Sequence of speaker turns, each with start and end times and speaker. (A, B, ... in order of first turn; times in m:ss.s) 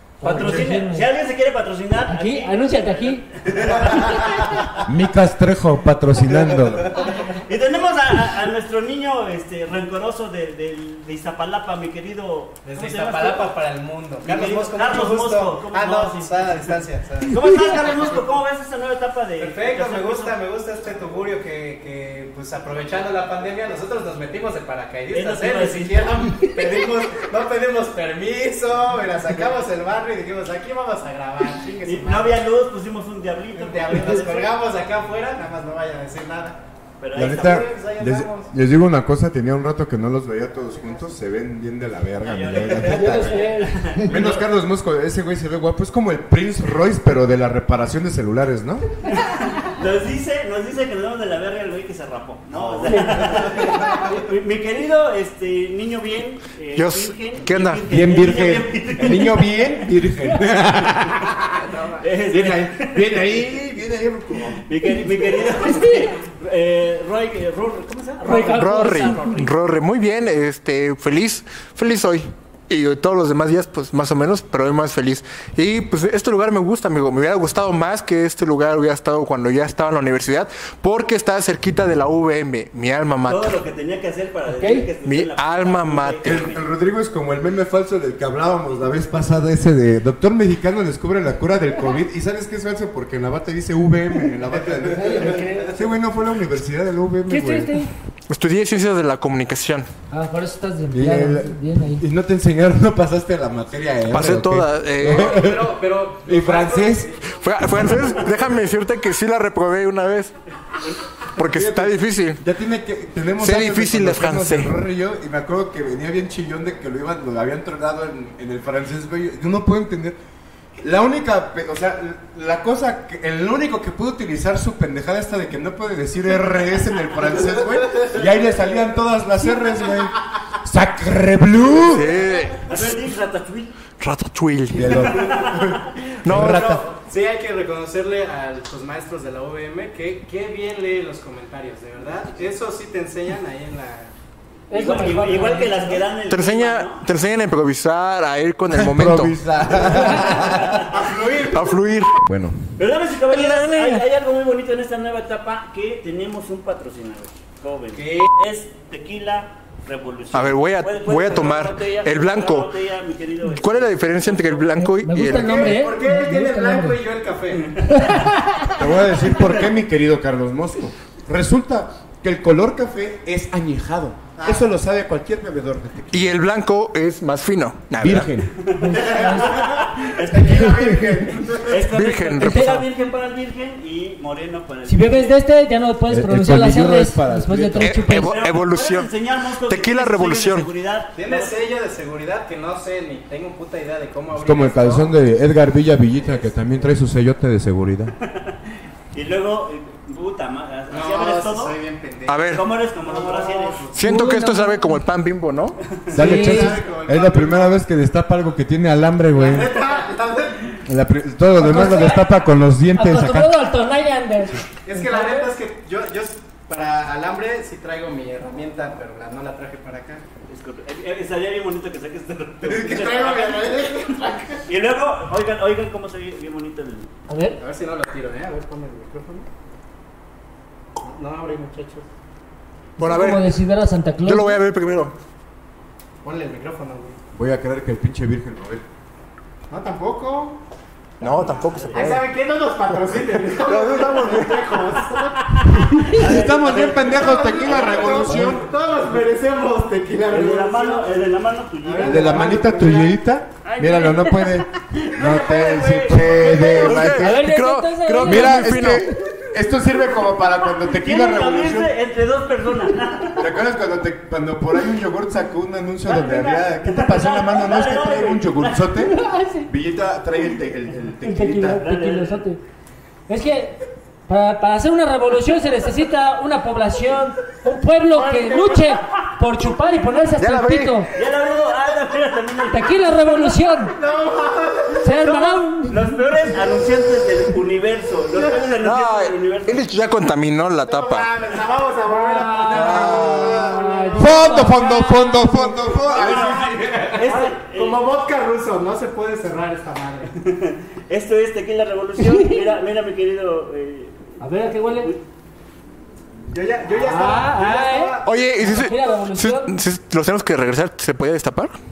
0:00.2-0:01.1 A
0:00.2-0:04.8 B
0:02.0-0:04.4 A
0:04.8-0:06.9 C
0:06.3-0:07.0 D
0:07.1-0:13.5 B
0:12.7-0:18.3 D
0:14.2-0:16.7 B
0:17.2-0:20.4 B
0:19.4-0:32.4 D
0:25.1-0:26.5 B
0:31.8-0:34.5 B
0:33.6-0:36.6 D
0:37.0-0:37.6 B
0:37.1-0:48.9 C
0:37.2-0:38.5 D
0:42.2-0:44.4 B
0:42.7-0:44.2 A
0:49.1-0:59.5 B
0:52.9-0:53.2 A
0:56.8-0:57.9 E
0:57.9-1:01.8 C
1:02.0-1:03.2 B
1:02.3-1:04.6 C
1:04.6-1:09.5 B
1:08.2-1:09.1 A
1:08.5-1:23.6 E
1:23.2-1:26.6 B
1:24.5-1:24.9 A
1:25.0-1:26.6 E
1:26.2-1:37.9 C
1:34.7-1:35.8 D
1:35.0-1:35.8 A
1:37.3-1:37.9 A
1:38.3-1:39.9 E
1:40.1-1:42.0 A
1:40.9-1:47.2 C
1:44.1-1:45.4 E
1:45.1-1:47.4 D
1:47.4-1:50.4 E
1:51.4-1:52.4 E
1:51.4-2:00.2 C
1:53.4-1:54.7 E
2:00.8-2:12.2 C
2:11.8-2:12.8 E
2:12.7-2:13.7 B
2:14.0-2:15.3 E
2:14.7-2:16.8 C
2:14.9-2:16.8 B
2:16.2-2:16.8 E
2:17.0-2:24.1 D
2:24.7-2:26.1 A
2:24.7-2:27.0 B
2:26.3-2:29.4 E
2:28.7-2:30.9 C
2:29.9-2:30.3 E
2:30.5-2:30.8 B
2:30.9-2:31.7 D
2:31.4-2:32.2 E
2:32.2-2:32.6 C
2:32.8-2:44.8 B
2:33.3-2:34.0 E
2:38.0-2:38.3 D
2:40.3-2:42.7 E
2:43.5-2:45.8 E
2:44.8-2:47.0 A
2:45.2-2:47.8 D
2:47.5-2:48.2 B
2:47.9-2:48.8 A
2:48.7-2:56.4 C
2:54.4-2:54.7 D
2:56.1-2:58.3 E
2:58.0-2:58.5 C
2:58.6-3:01.0 B
2:58.8-2:59.6 A
2:59.6-3:01.8 D
3:00.5-3:01.4 C
3:01.6-3:05.4 B
3:01.8-3:02.8 E
3:02.4-3:02.8 A
3:04.9-3:08.4 A
3:06.1-3:08.1 C
3:07.8-3:09.1 E
3:08.1-3:11.6 B
3:09.6-3:10.7 E
3:11.2-3:15.1 D
3:14.3-3:18.2 C
3:16.2-3:16.5 D
3:18.2-3:21.8 B
3:20.9-3:24.0 D
3:22.3-3:22.6 E
3:22.5-3:23.9 B
3:24.0-3:26.0 E
3:24.0-3:25.0 A
3:26.1-3:27.8 D
3:26.1-3:26.8 A
3:26.1-3:29.8 C
3:29.3-3:30.8 D
3:30.9-3:33.6 C
3:31.6-3:32.3 A
3:32.9-3:35.5 A
3:34.8-3:40.2 D
3:40.5-3:43.7 B
3:42.6-3:44.6 D
3:44.7-3:47.1 B
3:47.3-3:47.6 A
3:47.6-3:49.5 D
3:51.0-3:52.1 D
3:53.0-3:54.6 A
3:53.0-3:53.6 E
3:54.2-3:55.2 E
3:56.2-3:57.2 D
3:57.4-3:58.8 C
3:59.7-4:00.6 D
4:01.2-4:02.2 E
4:01.4-4:02.1 B
4:01.9-4:11.1 D
4:03.5-4:05.2 E
4:05.4-4:08.2 B
4:06.0-4:08.7 C
4:10.3-4:12.6 B
4:11.8-4:13.2 D
4:12.0-4:17.5 C
4:13.7-4:14.6 A
4:15.0-4:16.6 B
4:16.4-4:19.0 A
4:16.5-4:19.1 E
4:18.2-4:21.9 C
4:20.9-4:23.5 B
4:23.4-4:31.8 C
4:26.1-4:29.1 B
4:29.1-4:29.7 A
4:31.2-4:32.6 A
4:31.8-4:32.5 B
4:33.3-4:41.1 A
4:38.1-4:39.0 B
4:40.4-4:41.1 E
4:41.1-4:43.3 B
4:42.7-4:44.0 A
4:43.9-4:45.1 D
4:45.0-4:46.0 A
4:45.1-4:49.8 B
4:48.8-4:51.3 E
4:50.8-4:54.5 D
4:52.1-4:55.8 A
4:52.7-4:57.0 C
4:52.8-4:53.7 E
4:55.8-5:00.3 D
4:56.1-4:58.0 B
5:00.3-5:04.4 B
5:02.2-5:02.8 A
5:04.4-5:05.1 A
5:06.5-5:08.9 D
5:07.0-5:09.7 A
5:08.2-5:11.8 E